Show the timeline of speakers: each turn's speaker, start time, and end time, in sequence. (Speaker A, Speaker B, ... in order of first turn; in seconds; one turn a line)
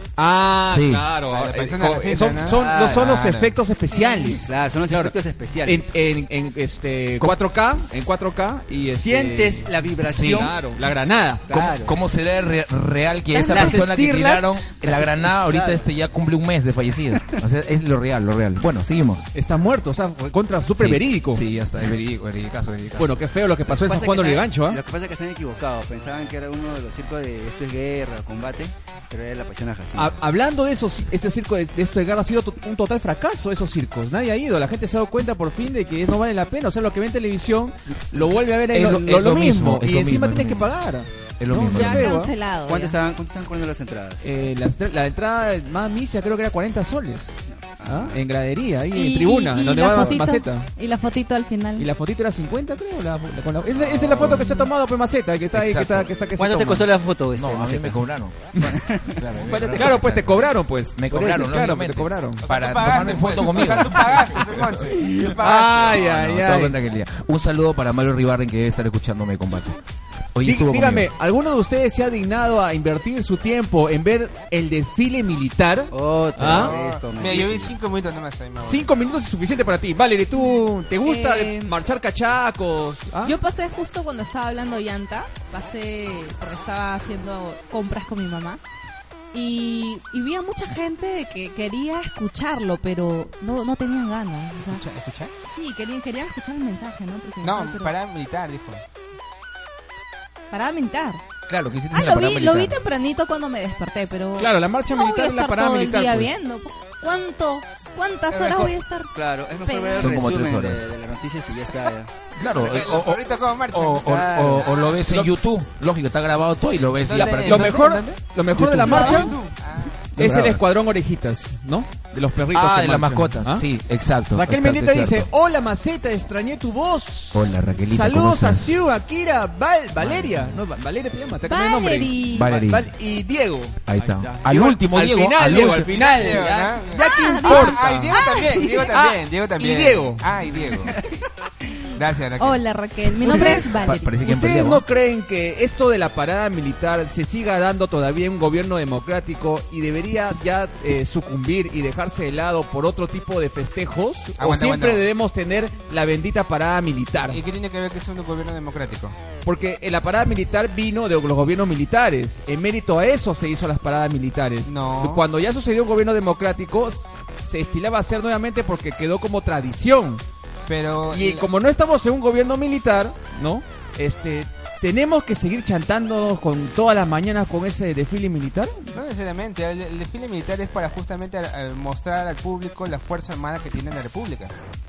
Speaker A: 0.2-11.5
Speaker B: 0.7-1.1
Speaker C: 1.3-3.5
Speaker D: 2.5-3.1
Speaker E: 4.0-4.4
Speaker D: 4.4-5.9
Speaker D: 9.0-10.6
Speaker B: 10.0-10.5
Speaker D: 11.5-11.9
Speaker B: 11.5-19.3
Speaker D: 13.3-15.9
Speaker A: 19.3-21.4
Speaker B: 20.8-23.2
Speaker A: 23.0-24.8
Speaker D: 23.7-30.2
Speaker A: 29.9-42.3
Speaker B: 38.1-40.7
Speaker B: 41.4-42.1
Speaker E: 41.7-43.0
Speaker D: 42.7-44.3
Speaker A: 44.2-47.3
Speaker D: 47.5-48.2
Speaker A: 47.8-50.7
Speaker E: 48.9-51.9
Speaker A: 51.8-56.9
Speaker C: 53.8-54.3
Speaker B: 54.1-54.5
Speaker E: 54.3-54.7
Speaker B: 55.5-56.1
Speaker D: 56.4-58.0
Speaker B: 57.3-58.5
Speaker D: 58.5-59.9
Speaker B: 59.1-64.8
Speaker A: 59.5-62.4
Speaker C: 62.5-66.1
Speaker A: 64.9-66.8
Speaker B: 65.9-69.8
Speaker B: 70.3-71.1
Speaker A: 70.4-76.7
Speaker D: 75.9-77.7
Speaker C: 76.4-78.9
Speaker A: 78.6-83.3
Speaker E: 81.0-81.7
Speaker E: 83.2-88.6
Speaker E: 89.3-94.8
Speaker C: 94.6-95.3
Speaker E: 95.5-97.9
Speaker C: 97.4-98.8
Speaker E: 100.5-101.2
Speaker B: 101.5-102.8
Speaker E: 101.9-109.1
Speaker A: 104.4-106.3
Speaker D: 108.3-112.1
Speaker E: 109.7-110.2
Speaker B: 110.0-110.9
Speaker B: 112.3-117.8
Speaker C: 112.5-114.7
Speaker D: 114.0-114.7
Speaker C: 117.0-118.2
Speaker A: 117.4-119.3
Speaker B: 118.5-119.2
Speaker C: 118.9-120.0
Speaker E: 118.9-119.3
Speaker A: 120.1-123.7
Speaker B: 120.2-120.6
Speaker B: 122.5-125.3
Speaker A: 124.3-138.2
Speaker B: 127.3-128.7
Speaker B: 130.0-130.6
Speaker E: 131.5-132.5
Speaker B: 132.3-132.9
Speaker B: 133.9-135.9
Speaker C: 135.9-141.0
Speaker E: 136.9-138.9
Speaker A: 138.9-140.2
Speaker C: 141.9-142.6
Speaker E: 142.4-144.2
Speaker A: 143.2-143.7
Speaker B: 143.2-144.8
Speaker A: 144.2-157.4
Speaker C: 154.4-155.1
Speaker C: 157.3-159.2
Speaker A: 159.4-170.2
Speaker C: 164.6-165.2
Speaker C: 170.7-171.5
Speaker A: 171.1-178.9
Speaker C: 178.9-184.6